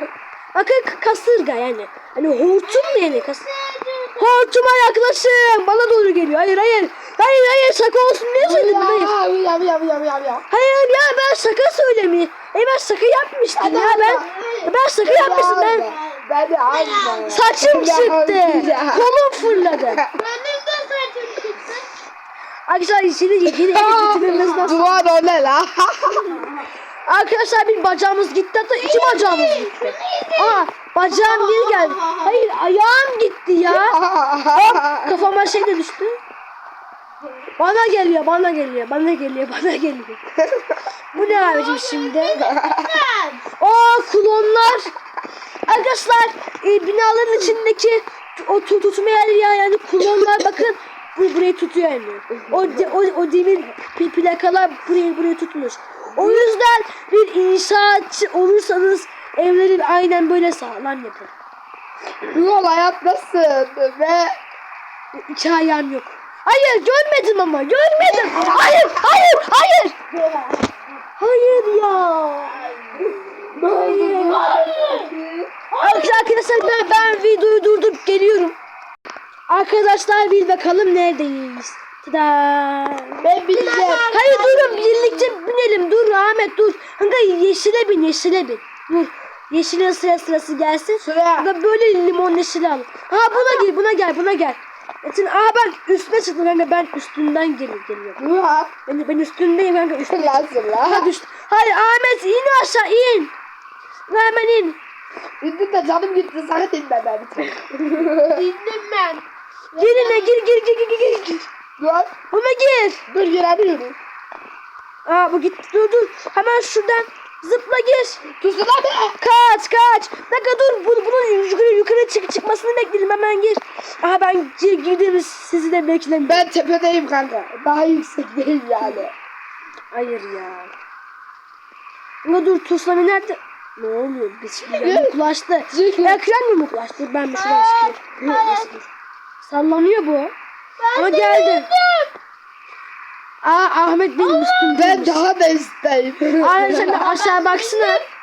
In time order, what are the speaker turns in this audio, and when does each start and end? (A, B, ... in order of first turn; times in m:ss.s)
0:00.5-0:03.4 A
0:02.6-0:04.5 B
0:04.2-0:09.1 A
0:08.4-0:10.5 C
0:10.5-0:15.9 A
0:13.6-0:14.3 C
0:14.0-0:14.7 B
0:15.0-0:19.0 C
0:15.6-0:17.6 B
0:17.3-0:20.0 A
0:20.1-0:21.9 B
0:22.7-0:24.9 A
0:23.6-0:26.5 C
0:24.0-0:25.0 B
0:26.3-0:26.6 B
0:27.0-0:34.0 A
0:28.8-0:32.4 B
0:33.7-0:35.2 C
0:34.5-0:36.2 A
0:37.6-0:40.2 A
0:41.1-0:42.4 A
0:41.1-0:43.4 B
0:42.3-0:43.0 C
0:43.6-0:44.9 A
0:45.6-1:01.3 A
0:52.5-0:52.8 C
0:56.2-0:56.4 C
1:02.2-1:04.4 C
1:05.1-1:10.0 A
1:08.4-1:08.8 C
1:10.1-1:10.8 B
1:11.2-1:12.7 A
1:12.6-1:13.2 B
1:13.5-1:15.5 C
1:13.7-1:14.5 A
1:14.4-1:15.1 B
1:15.7-1:18.6 A
1:15.8-1:17.2 B
1:19.5-1:23.2 A
1:23.2-1:24.1 C
1:23.4-1:25.3 B
1:24.1-1:38.2 A
1:31.0-1:31.5 C
1:33.3-1:33.6 B
1:38.2-1:38.7 C
1:38.8-1:43.3 A
1:40.1-1:41.1 C
1:44.1-1:44.8 A
1:45.4-1:48.4 C
1:48.3-1:50.3 B
1:49.8-1:51.5 A
1:51.8-1:52.1 C
1:52.3-1:53.0 A
1:53.1-1:54.0 C
1:55.0-1:58.2 A
1:58.4-1:59.2 C
1:59.2-2:06.5 A
2:06.2-2:09.1 C
2:09.9-2:10.7 A
2:12.2-2:18.0 A
2:14.6-2:15.2 C
2:15.7-2:16.2 C
2:17.3-2:18.7 B
2:18.2-2:18.7 C
2:19.4-2:20.3 A
2:20.8-2:22.1 B
2:21.0-2:21.7 A
2:23.4-2:25.2 A
2:24.2-2:24.8 B
2:24.7-2:27.0 C
2:26.4-2:28.0 A
2:26.6-2:28.0 B